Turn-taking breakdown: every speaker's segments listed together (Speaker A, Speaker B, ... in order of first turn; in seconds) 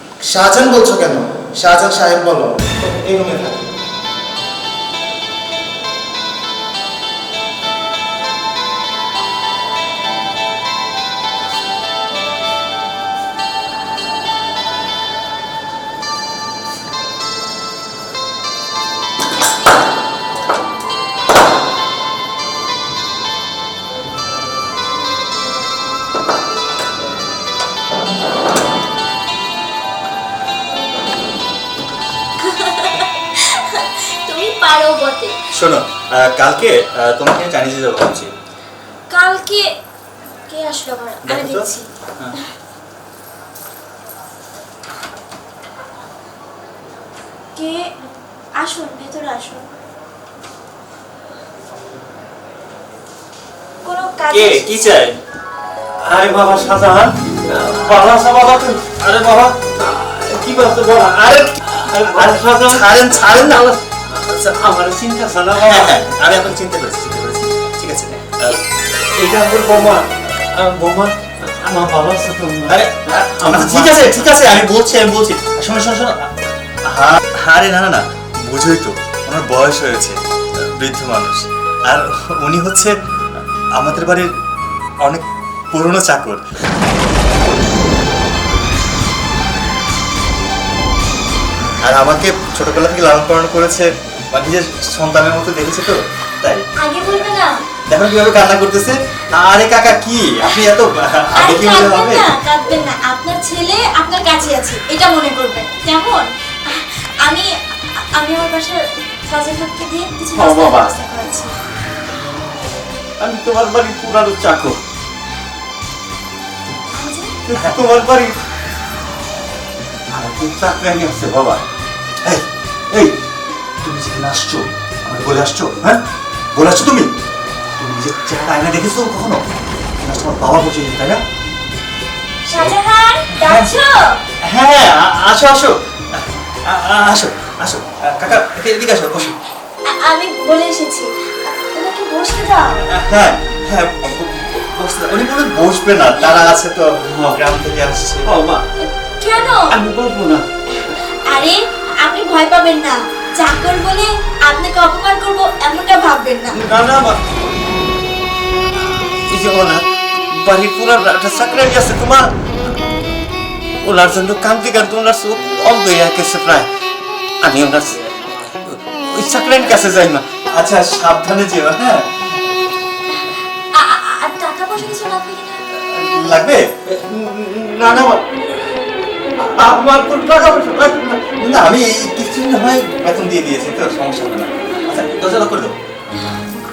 Speaker A: 0.5-2.0, 2.6-3.6, 64.0-64.6
Speaker B: 32.4-35.4, 39.1-39.7, 40.5-41.9, 47.5-47.9, 48.5-49.6, 53.8-54.8, 96.8-97.5, 101.3-107.5, 108.1-111.5, 116.9-117.3, 132.4-134.2, 139.8-142.8, 148.8-149.7, 150.8-156.6, 173.7-175.6
Speaker C: 35.5-38.3, 41.3-41.6, 54.3-55.1, 56.1-57.0, 58.9-59.5, 61.9-63.7, 65.6-68.6, 72.7-76.2, 76.9-82.9, 83.8-84.3, 85.0-86.4, 91.8-96.6, 97.9-102.3, 122.2-123.2, 123.8-126.0, 126.5-127.1, 127.8-129.4, 130.0-131.2, 133.3-133.7, 134.4-139.4, 142.9-148.3, 170.5-172.0, 175.9-176.7, 181.4-185.7
Speaker D: 57.9-58.7, 60.1-62.8, 63.4-63.6, 64.6-65.9, 69.3-70.0, 70.7-71.1, 71.7-72.8, 73.5-74.0, 110.4-110.9, 113.2-114.8, 117.6-118.3, 120.3-121.6, 148.3-148.6, 149.7-150.4, 156.6-157.2, 158.8-159.8, 160.4-162.3, 163.8-166.7, 167.4-170.2, 177.1-178.2, 179.6-181.2